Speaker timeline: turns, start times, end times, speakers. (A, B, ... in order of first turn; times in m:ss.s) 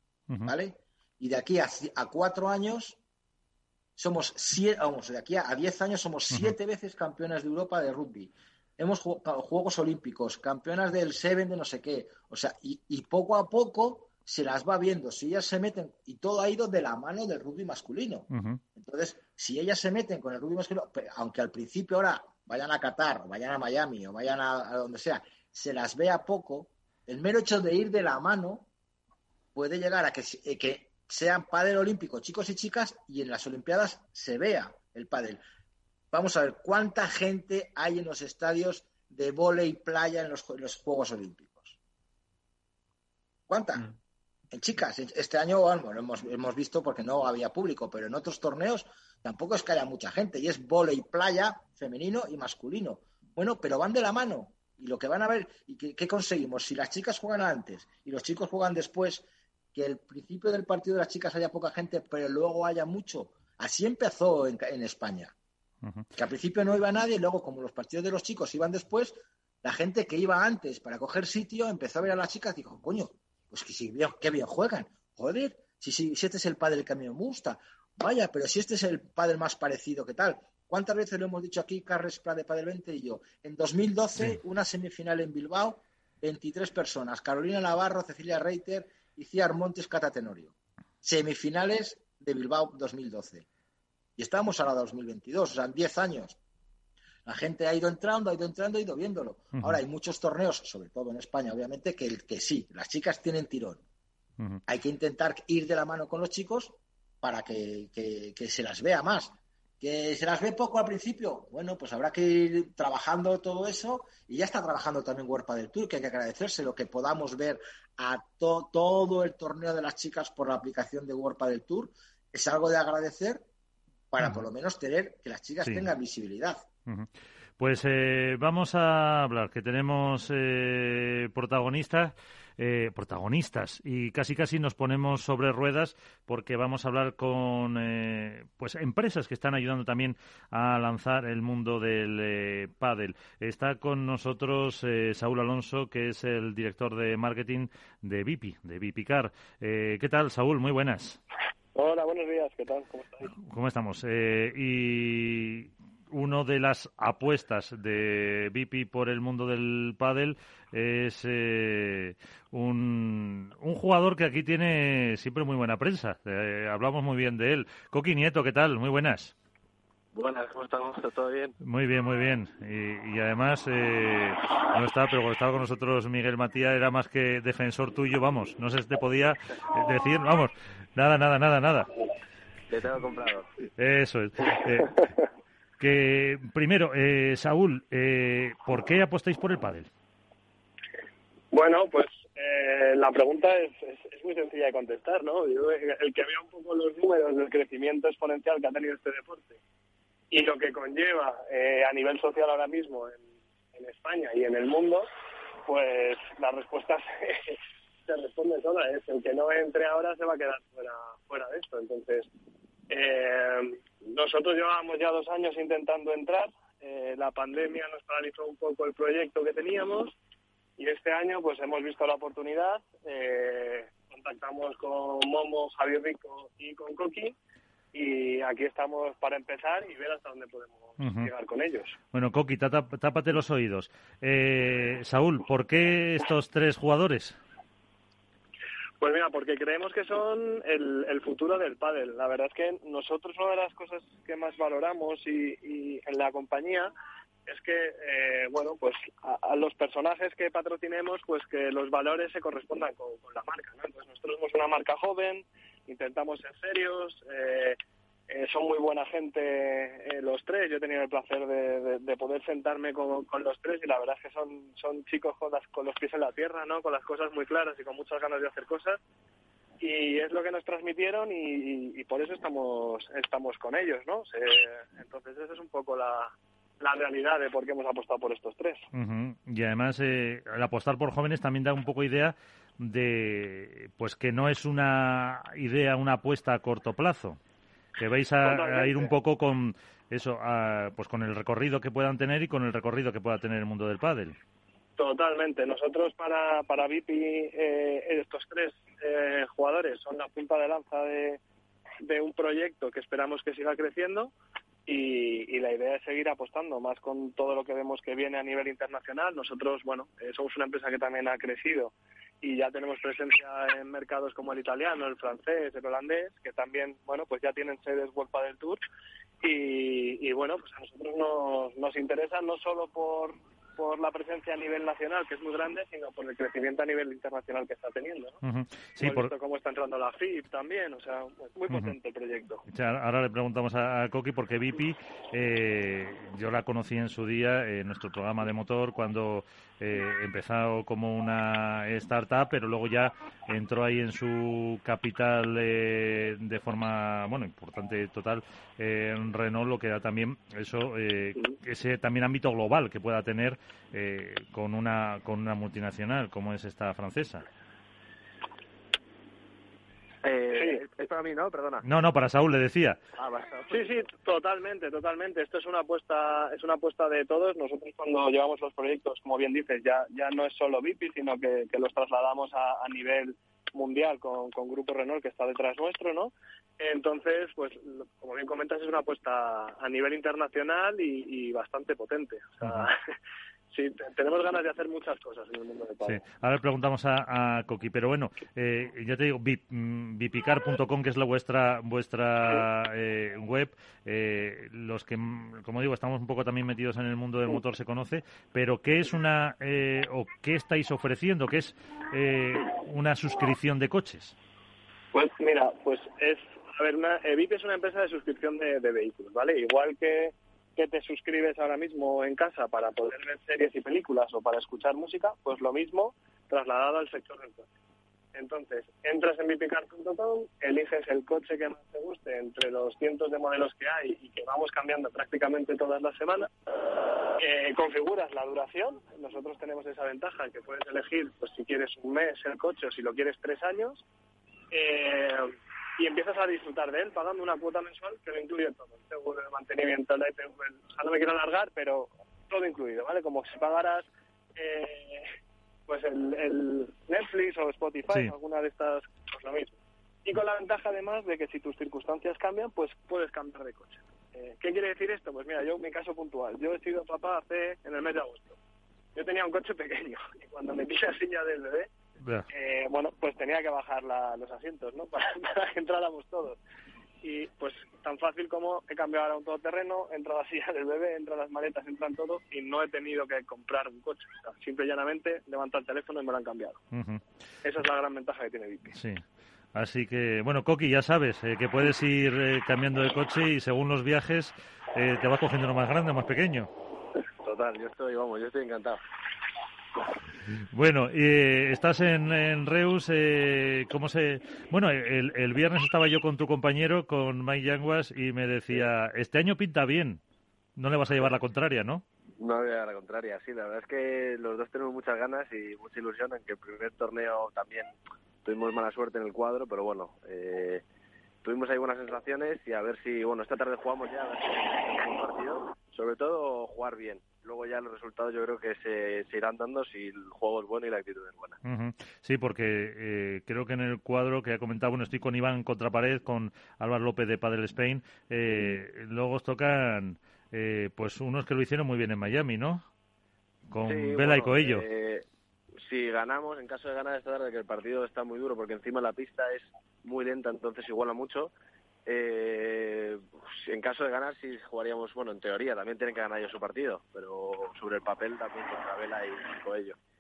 0:00.4-0:03.0 A
0:04.0-0:28.7 A
0:18.3-0:18.6 B
0:29.6-0:35.4 A
0:36.1-0:41.8 A
0:43.5-0:43.8 A
0:44.5-1:05.3 A
1:06.2-1:33.4 A
1:34.2-1:36.4 A
1:37.2-1:43.8 A
1:39.6-1:39.8 B
1:44.7-2:03.4 A
2:04.1-2:06.6 A
2:06.9-2:31.2 B
2:31.7-2:33.3 C
2:33.3-2:49.3 B
2:50.1-2:51.6 D
2:51.6-3:01.9 B
3:02.7-3:03.5 D
3:03.8-3:05.0 B
3:05.8-3:09.9 B
3:11.5-3:19.6 C
3:20.3-3:25.1 C
3:25.7-3:32.3 C
3:32.9-3:40.2 C
3:40.8-3:47.3 C
3:47.9-3:52.0 C
3:51.0-3:51.3 B
3:52.1-3:57.4 B
3:59.0-4:06.9 C
4:07.4-4:17.8 C
4:18.3-4:29.0 C
4:29.8-4:38.8 C
4:38.9-4:47.4 B
4:48.0-4:54.4 B
4:48.4-4:49.1 C
4:55.0-5:01.4 C
5:02.0-5:04.3 C
5:04.9-5:18.8 C
5:19.4-5:28.4 C
5:28.4-5:29.3 B
5:29.0-5:32.6 C
5:31.7-5:32.0 B
5:32.7-5:57.4 B
6:00.2-6:01.8 D
6:00.5-6:00.8 C
6:01.8-6:03.0 B
6:03.2-6:03.9 D
6:03.7-6:23.0 C
6:22.6-6:22.9 B
6:23.7-6:26.2 C
6:26.0-6:44.3 B
6:45.1-6:57.7 C
6:58.3-7:06.5 C
7:07.4-7:14.0 C
7:14.7-7:25.2 C
7:25.9-7:38.6 C
7:28.1-7:28.3 B
7:39.1-7:41.9 C
7:42.2-7:42.5 B
7:42.5-7:46.6 C
7:47.2-7:56.8 C
7:56.9-7:57.2 B
7:57.6-7:59.0 C
7:58.9-7:59.2 B
7:59.7-8:06.7 B
8:07.4-8:09.0 D
8:10.7-8:20.2 B
8:20.8-8:22.0 B
8:22.4-8:27.9 D
8:28.4-8:30.8 D
8:31.4-8:41.6 D
8:41.6-8:52.8 B
8:48.5-8:48.8 D
8:53.7-8:54.9 B
8:53.8-8:55.2 D
8:55.8-9:01.5 D
9:02.1-9:10.0 D